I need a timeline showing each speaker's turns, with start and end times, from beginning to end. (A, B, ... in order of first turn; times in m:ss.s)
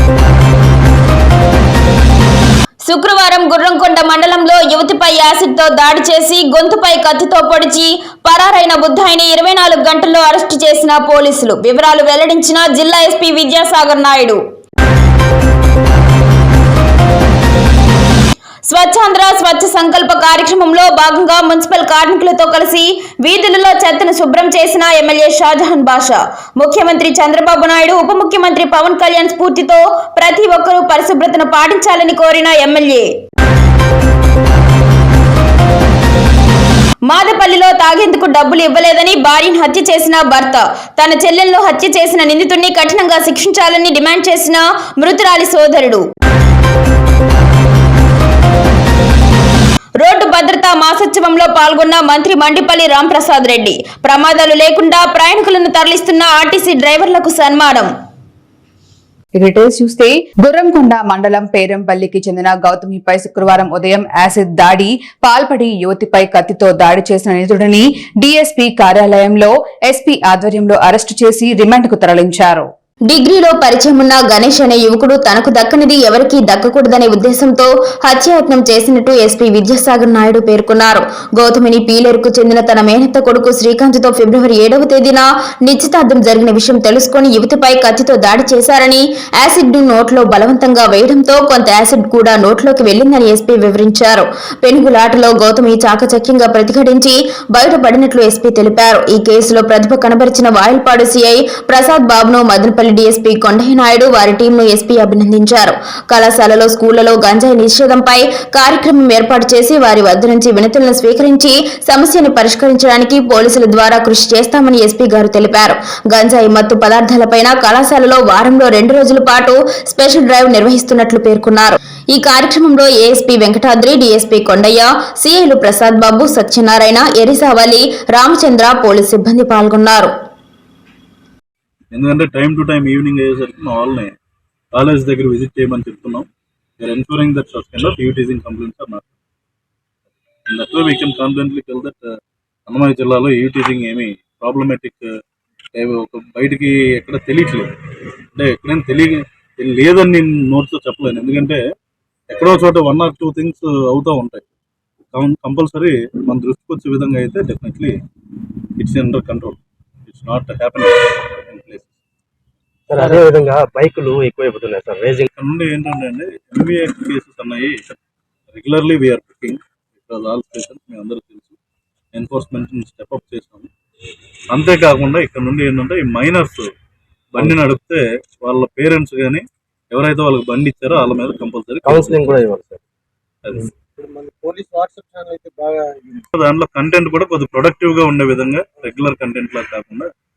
0:02.8-0:14.4 A
0:18.6-0:33.1 A
0:37.0-0:46.0 A
0:50.0-0:57.9 A
0:59.3-1:12.7 B
1:13.1-2:10.1 A
2:11.9-2:14.1 C
2:14.8-2:16.3 C
2:16.8-2:19.1 C
2:20.5-2:22.0 C
2:22.7-2:25.1 C
2:25.8-2:27.7 C
2:28.4-2:31.6 C
2:32.3-2:34.5 C
2:35.1-2:37.9 C
2:38.8-2:41.9 C
2:42.9-2:45.3 D
2:45.3-2:47.8 C
2:48.5-2:51.6 C
2:52.1-2:53.7 C
2:54.5-2:56.7 C
2:57.3-3:02.4 C
3:01.8-3:02.8 D
3:03.4-3:03.7 C
3:04.0-3:06.2 E
3:06.3-3:10.1 C